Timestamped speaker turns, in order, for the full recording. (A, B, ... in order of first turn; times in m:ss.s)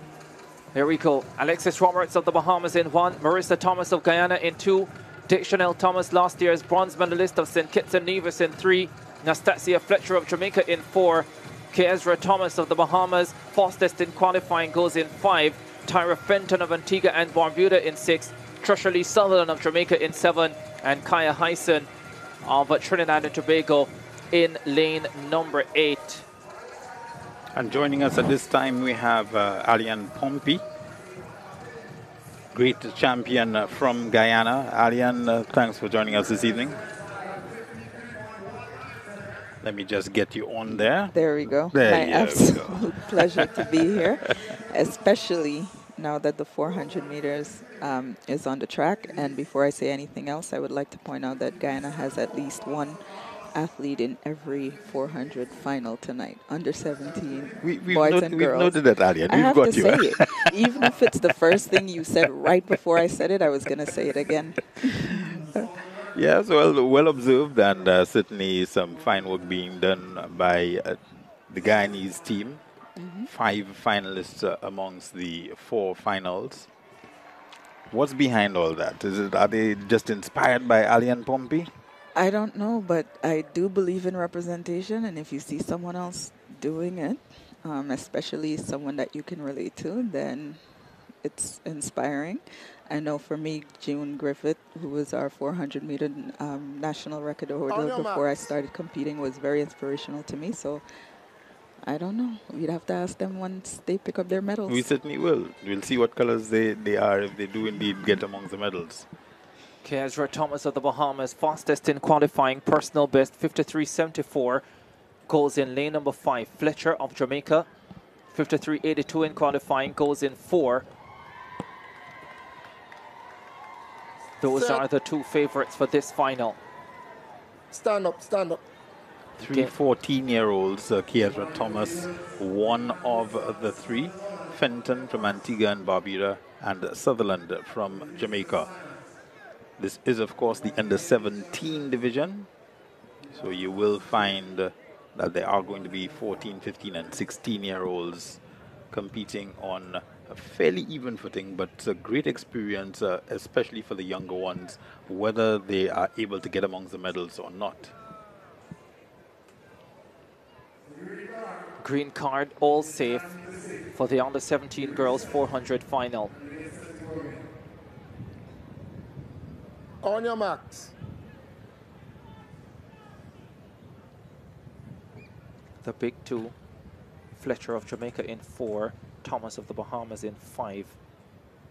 0:00.7-0:21.9 A
0:22.4-0:26.3 A
0:27.6-0:30.6 B
0:32.5-0:36.8 B
0:39.6-0:44.3 B
0:41.1-0:53.0 C
0:53.5-1:05.7 C
0:57.6-1:00.5 B
1:06.1-1:11.0 B
1:11.5-1:12.6 B
1:13.0-1:13.3 C
1:13.2-1:16.7 B
1:17.9-1:21.7 B
1:22.2-1:30.6 C
1:31.2-1:40.8 C
1:37.8-1:38.2 D
1:41.8-1:44.9 C
1:44.7-1:49.1 B
1:49.8-1:54.6 A
1:55.3-1:57.7 A
1:58.3-2:00.8 A
2:04.4-2:06.6 A
2:07.7-2:08.6 D
2:09.4-2:18.7 B
2:19.8-2:22.5 B
2:23.3-2:28.4 B
2:28.9-2:37.9 B
2:41.8-2:43.3 A
2:43.9-2:46.3 A
2:50.0-2:50.9 D
2:55.8-2:56.5 A
2:57.4-3:01.0 A